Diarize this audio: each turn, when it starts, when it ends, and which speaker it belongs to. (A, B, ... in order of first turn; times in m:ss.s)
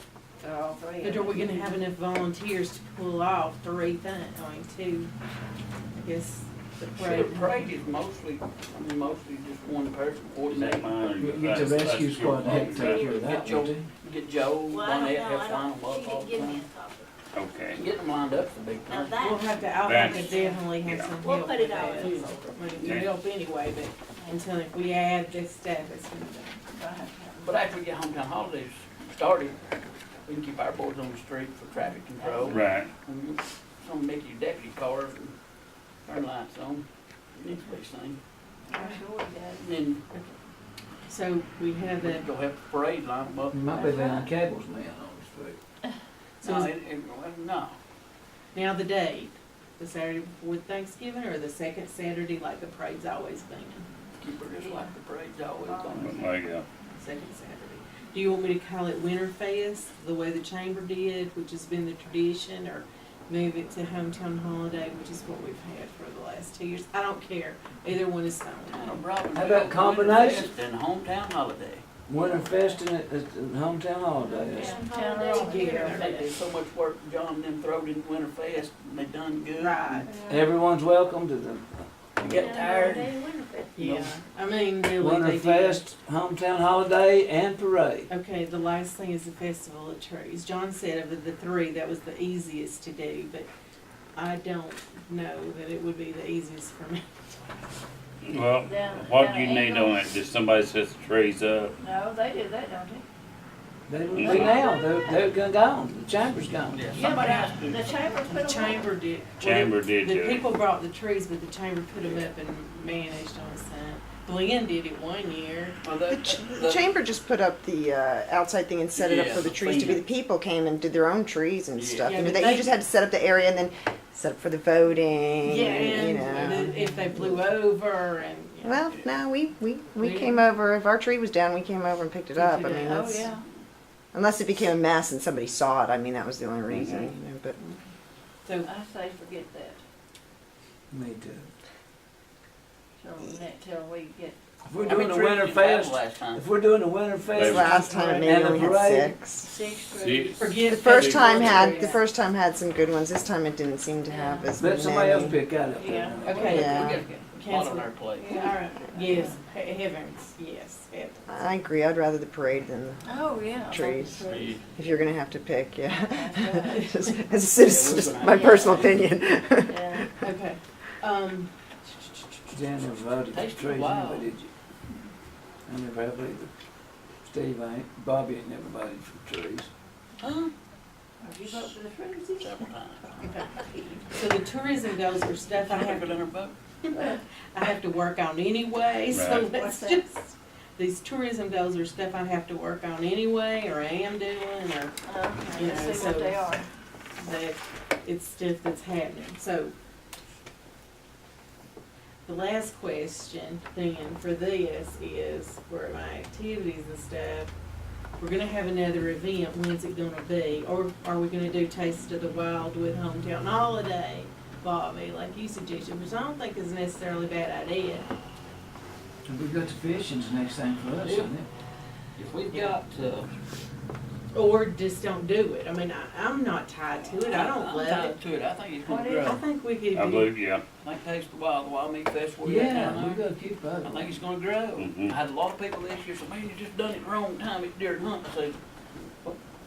0:00.4-0:01.7 A
0:01.0-0:05.1 B
0:06.0-0:07.6 B
0:06.9-0:11.1 C
0:10.4-0:13.2 D
0:11.2-0:13.9 E
0:12.5-0:13.3 F
0:13.2-0:16.7 C
0:14.7-0:17.1 F
0:17.3-0:17.8 D
0:17.7-0:19.2 C
0:18.9-0:20.5 F
0:19.2-0:26.6 B
0:19.8-0:21.2 D
0:20.1-0:20.6 A
0:21.2-0:22.9 F
0:21.7-0:23.0 C
0:22.8-0:23.1 D
0:24.2-0:24.4 A
0:26.7-0:27.6 A
0:27.4-0:29.6 C
0:30.2-0:35.4 C
0:32.2-0:32.6 A
0:32.4-0:32.9 D
0:36.0-0:38.2 C
0:38.6-0:39.6 A
0:38.7-0:39.0 B
0:39.6-0:40.0 C
0:41.1-0:42.3 B
0:42.0-0:43.6 C
0:43.5-0:45.6 E
0:43.7-0:44.3 A
0:46.4-0:46.7 B
0:46.4-0:47.8 C
0:48.5-0:53.9 B
0:54.2-0:56.2 C
0:54.6-0:54.9 A
0:55.7-0:56.4 A
0:56.0-0:56.6 D
0:56.9-1:09.0 B
1:08.7-1:11.8 C
1:09.3-1:10.5 E
1:12.1-1:14.8 E
1:14.3-1:16.3 F
1:14.4-1:16.0 A
1:15.1-1:16.1 B
1:16.0-1:20.0 C
1:19.6-1:20.1 B
1:20.0-1:20.4 F
1:20.2-1:22.4 E
1:22.2-1:23.1 C
1:22.2-1:23.9 F
1:22.4-1:23.0 B
1:23.8-1:25.8 B
1:23.8-1:24.2 C
1:24.9-1:28.1 E
1:28.1-1:33.5 B
1:34.1-1:37.0 B
1:38.2-1:41.7 D
1:38.6-1:40.0 A
1:41.8-1:43.0 A
1:43.9-1:46.8 E
1:44.1-1:44.6 D
1:44.2-1:44.7 A
1:46.7-1:48.0 C
1:46.9-1:48.9 A
1:47.0-1:47.5 B
1:48.2-1:55.8 B
1:49.4-1:50.5 D
1:52.0-1:52.3 C
1:55.8-1:56.9 C
1:56.1-2:06.6 G
1:58.9-2:00.0 C
2:01.7-2:02.4 C
2:02.0-2:02.7 B
2:05.4-2:08.9 B
2:08.6-2:13.3 G
2:10.0-2:10.4 B
2:12.4-2:13.0 B
2:12.6-2:13.4 A
2:14.1-2:17.8 G
2:16.7-2:17.1 D
2:18.6-2:19.8 A
2:20.9-2:21.5 E
2:23.0-2:24.4 A
2:24.6-2:29.1 E
2:24.8-2:26.4 C
2:27.3-2:27.9 D
2:27.4-2:29.5 G
2:29.4-2:30.6 A
2:30.0-2:31.8 D
2:30.4-2:32.0 B
2:30.6-2:35.4 G
2:34.1-2:34.5 A
2:34.6-2:36.8 E
2:35.8-2:36.2 A
2:36.2-2:41.5 B
2:36.4-2:38.5 C
2:36.5-2:37.0 G
2:38.2-2:39.4 A
2:41.3-2:50.1 G
2:43.0-2:44.6 A
2:44.3-2:44.6 D
2:46.1-2:46.9 A
2:47.6-2:49.0 C
2:48.3-2:48.8 A
2:49.6-2:50.1 A
2:50.2-2:51.5 B
2:52.5-2:54.5 E
2:53.3-2:54.3 C
2:55.7-2:56.5 E
2:57.2-2:59.7 E
3:00.2-3:00.5 C
3:01.2-3:02.6 A
3:02.4-3:03.1 C
3:03.1-3:04.0 A
3:04.1-3:14.9 B
3:05.5-3:06.5 C
3:06.9-3:07.2 A
3:09.1-3:09.5 D
3:09.5-3:10.0 A
3:15.0-3:16.7 A
3:15.5-3:16.6 B
3:17.2-3:19.7 B
3:22.2-3:27.5 B
3:28.2-3:38.1 B
3:39.2-3:41.4 E
3:41.0-3:41.3 C
3:42.1-3:43.3 C
3:44.3-3:48.2 B
3:46.9-3:49.4 C
3:48.8-3:49.4 A
3:49.2-3:50.3 B
3:49.9-3:50.6 D
3:50.8-3:53.3 C
3:52.4-3:54.1 E
3:53.8-3:58.6 C
3:54.8-3:55.1 D